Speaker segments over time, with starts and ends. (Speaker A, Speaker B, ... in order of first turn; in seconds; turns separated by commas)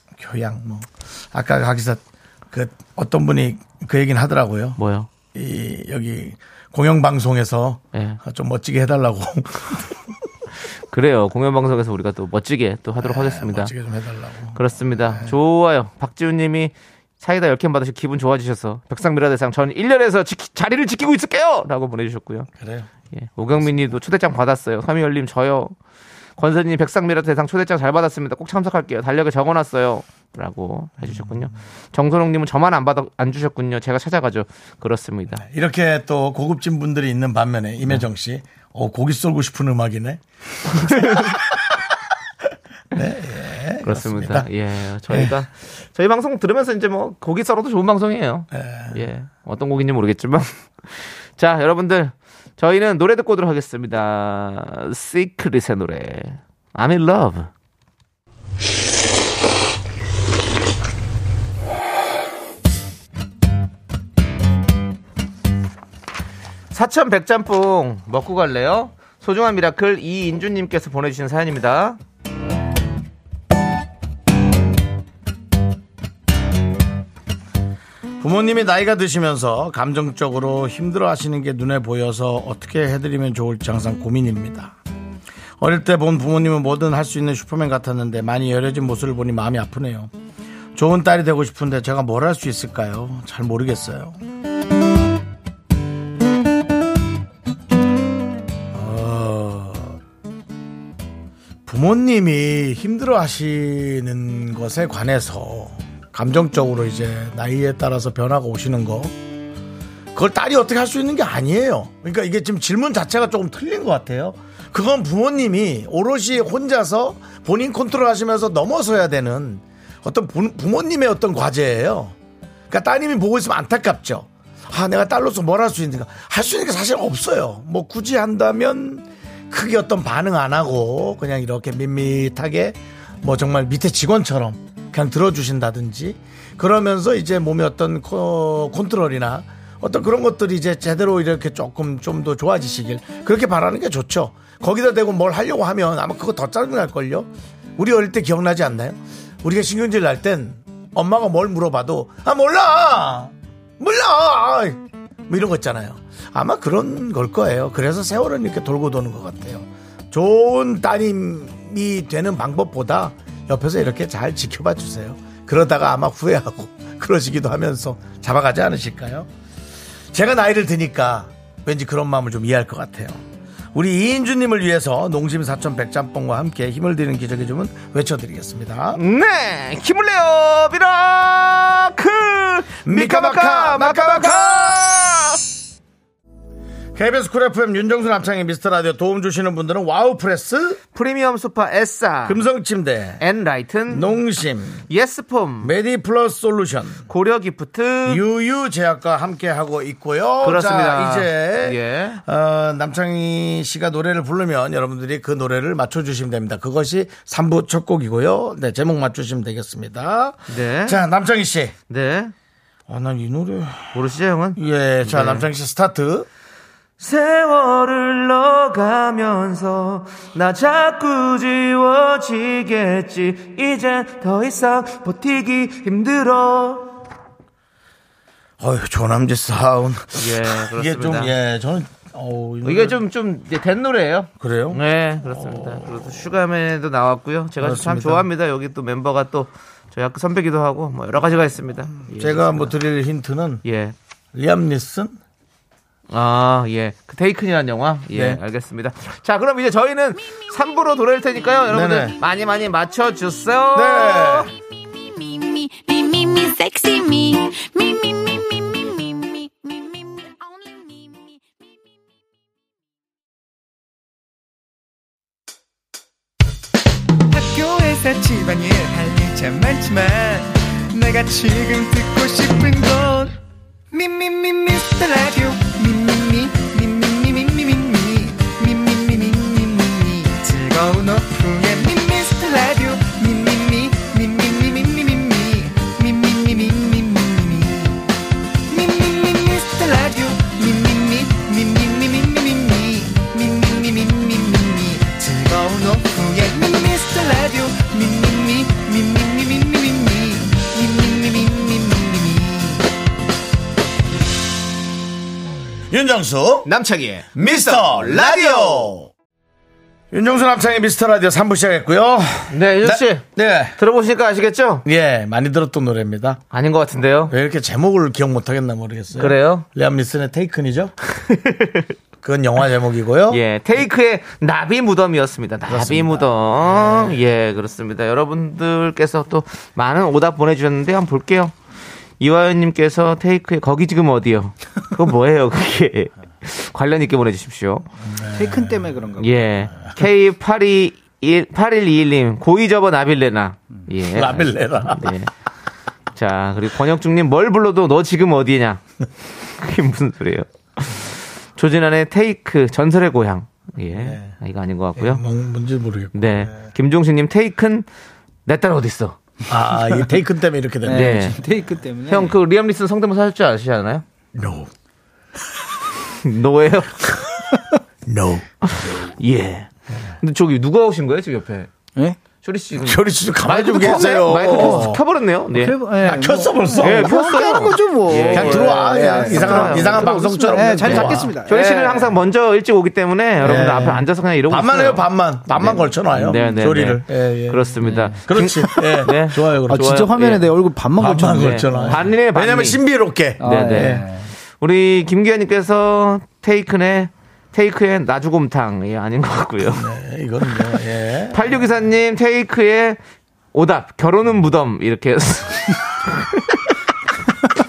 Speaker A: 0.2-4.8, Speaker B: 4.8-5.1, Speaker A: 5.3-10.0, Speaker B: 7.9-8.2, Speaker B: 10.9-13.7, Speaker A: 13.0-15.3, Speaker B: 14.6-22.5, Speaker A: 22.6-22.9, Speaker B: 23.1-25.8, Speaker B: 26.4-35.4, Speaker A: 31.0-31.5, Speaker A: 35.4-41.7, Speaker B: 40.9-41.3, Speaker A: 42.9-44.5, Speaker B: 43.8-57.5, Speaker A: 45.1-45.4, Speaker A: 48.5-49.0, Speaker B: 66.7-72.0, Speaker A: 78.2-84.8, Speaker A: 85.6-90.1, Speaker A: 90.8-94.2, Speaker A: 98.7-100.0, Speaker A: 101.7-109.1, Speaker A: 110.1-122.2, Speaker A: 122.7-169.3, Speaker A: 170.1-173.2, Speaker A: 173.7-179.0, Speaker B: 178.9-185.4, Speaker A: 182.8-184.9, Speaker A: 186.9-190.8, Speaker B: 190.9-192.4, Speaker A: 192.3-193.2, Speaker B: 193.2-194.1, Speaker A: 193.9-194.8, Speaker B: 194.9-195.7, Speaker A: 195.6-197.1, Speaker B: 197.1-198.2, Speaker A: 198.1-211.8, Speaker B: 200.4-202.2, Speaker B: 210.5-211.0, Speaker B: 211.9-212.3, Speaker A: 212.9-214.0, Speaker B: 213.9-215.5, Speaker A: 214.6-216.3, Speaker B: 217.0-227.0, Speaker A: 228.6-233.0, Speaker B: 230.2-231.3, Speaker B: 232.6-242.7, Speaker A: 234.4-236.0, Speaker A: 237.6-238.3, Speaker A: 242.1-243.6, Speaker B: 243.6-243.9, Speaker A: 244.3-245.2, Speaker B: 246.1-254.5, Speaker A: 248.1-248.4, Speaker A: 251.7-252.2, Speaker A: 253.7-254.5, Speaker C: 254.9-261.9, Speaker D: 267.3-273.4, Speaker D: 273.9-288.0, Speaker D: 288.7-302.8, Speaker A: 305.9-306.7, Speaker B: 306.6-309.0, Speaker A: 307.4-309.1, Speaker A: 310.1-313.8, Speaker B: 312.5-313.3, Speaker B: 313.8-314.9, Speaker A: 314.9-316.4, Speaker B: 316.5-317.4, Speaker A: 317.3-320.9, Speaker B: 319.2-319.7, Speaker B: 321.2-321.9, Speaker A: 322.2-323.4, Speaker B: 323.3-331.5, Speaker A: 325.7-327.2, Speaker B: 332.2-337.9, Speaker A: 338.1-338.9, Speaker E: 338.3-339.4, Speaker B: 339.2-345.3, Speaker A: 344.1-345.1, Speaker B: 346.2-348.8, Speaker B: 349.5-355.2, Speaker A: 353.9-354.3, Speaker A: 355.0-356.6, Speaker B: 356.1-357.9, Speaker B: 358.5-359.2, Speaker A: 359.5-361.3, Speaker E: 360.9-362.4, Speaker B: 360.9-361.4, Speaker B: 362.1-364.0, Speaker A: 364.4-364.7, Speaker B: 366.1-367.3, Speaker A: 368.1-368.5, Speaker B: 368.6-371.7, Speaker B: 372.4-375.8, Speaker A: 372.8-375.0, Speaker E: 374.5-375.0, Speaker E: 375.5-382.1, Speaker A: 376.0-377.6, Speaker B: 376.8-390.5, Speaker A: 378.3-381.3, Speaker A: 383.4-389.9, Speaker E: 387.8-388.2, Speaker E: 389.7-392.0, Speaker A: 391.0-394.1, Speaker B: 391.4-392.8, Speaker B: 393.4-394.1, Speaker E: 393.4-394.3, Speaker B: 394.6-399.9, Speaker A: 399.7-401.6, Speaker B: 401.3-403.0, Speaker B: 403.5-406.6